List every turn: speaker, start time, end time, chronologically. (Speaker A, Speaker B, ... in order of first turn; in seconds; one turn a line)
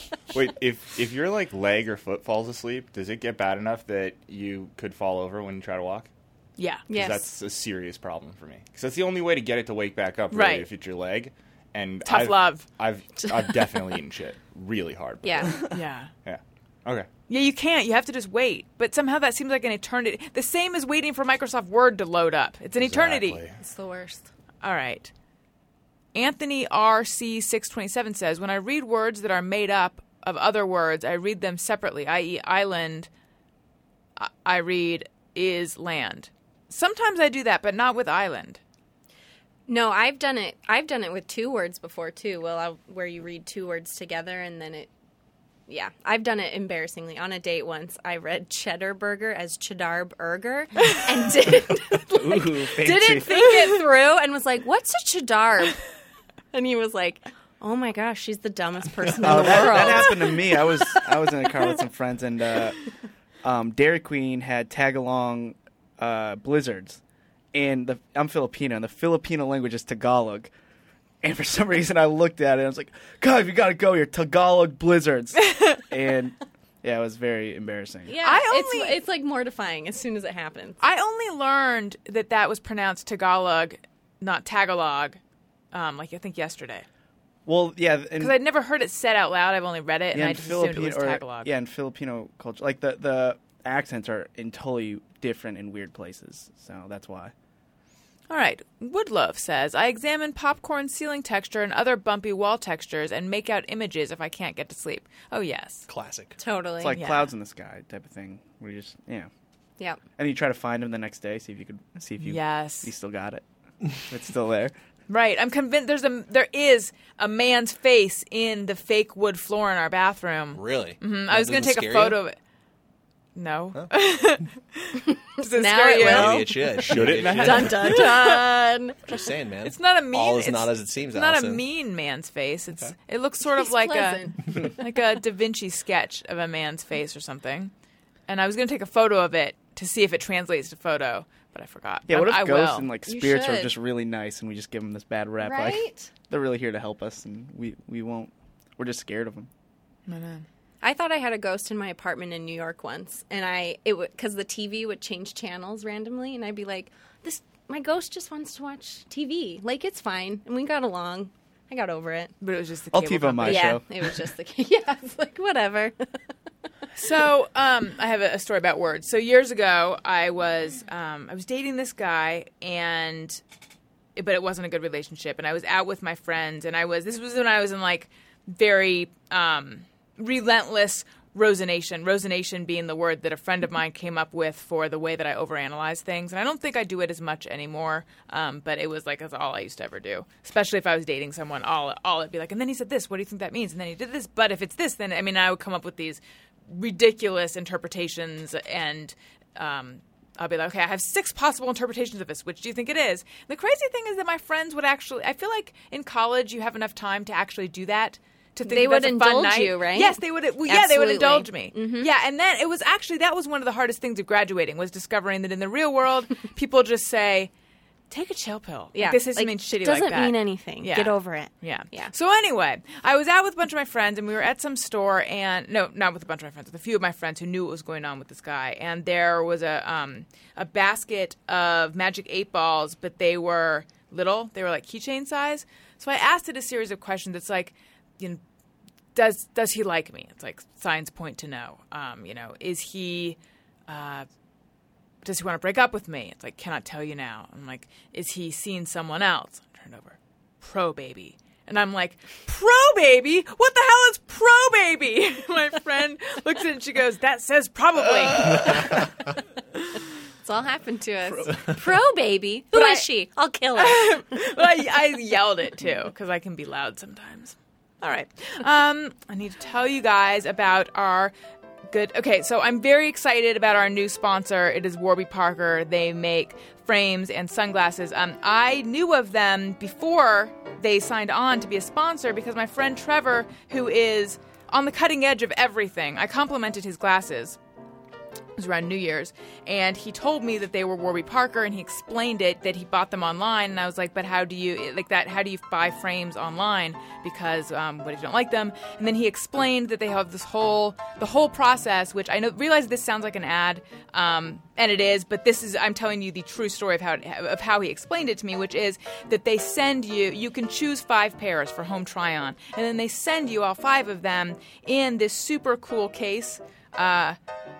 Speaker A: 0.3-6.1
Speaker B: 6.6-6.9
Speaker C: 6.9-7.3
Speaker A: 6.9-15.7
Speaker B: 10.3-10.7
Speaker B: 12.1-12.6
Speaker C: 13.3-13.7
Speaker C: 15.2-15.6
Speaker B: 15.7-16.1
Speaker A: 16.2-17.1
Speaker B: 17.3-23.4
Speaker A: 22.8-23.6
Speaker C: 23.6-24.2
Speaker B: 24.6-25.1
Speaker B: 26.1-33.1
Speaker B: 34.2-38.6
Speaker C: 39.7-44.9
Speaker C: 45.7-55.8
Speaker D: 52.1-53.5
Speaker C: 56.5-60.6
Speaker D: 59.2-62.8
Speaker D: 63.4-67.0
Speaker D: 67.5-70.5
Speaker D: 71.2-78.1
Speaker B: 75.5-75.8
Speaker C: 78.1-80.8
Speaker B: 78.2-79.0
Speaker B: 80.8-85.2
Speaker B: 85.7-86.8
Speaker D: 87.5-88.4
Speaker B: 88.2-91.5
Speaker D: 90.1-97.3
Speaker B: 98.3-105.9
Speaker E: 105.9-106.4
Speaker C: 106.4-107.0
Speaker D: 106.8-109.3
Speaker B: 106.9-107.3
Speaker D: 110.2-113.4
Speaker B: 112.2-112.9
Speaker D: 114.0-114.7
Speaker B: 115.1-122.4
Speaker E: 120.5-122.2
Speaker B: 123.3-126.4
Speaker C: 125.4-129.0
Speaker E: 126.0-128.2
Speaker A: 126.8-128.0
Speaker B: 127.8-128.4
Speaker E: 129.1-131.6
Speaker B: 129.6-137.7
Speaker C: 133.5-134.7
Speaker B: 138.3-142.9
Speaker D: 142.1-149.5
Speaker C: 143.1-143.7
Speaker C: 145.4-146.1
Speaker B: 150.1-150.4
Speaker C: 150.8-162.3
Speaker B: 162.4-163.8
Speaker D: 162.9-164.2
Speaker C: 163.4-165.9
Speaker B: 166.9-173.4
Speaker B: 174.2-217.5
Speaker C: 208.6-212.1
Speaker B: 218.1-238.4
Speaker C: 218.9-222.1
Speaker B: 239.1-244.3
Speaker B: 245.2-259.0
Speaker C: 260.4-264.3
Speaker B: 262.7-263.1
Speaker B: 263.7-271.3
Speaker B: 271.9-287.6
Speaker B: 288.6-317.4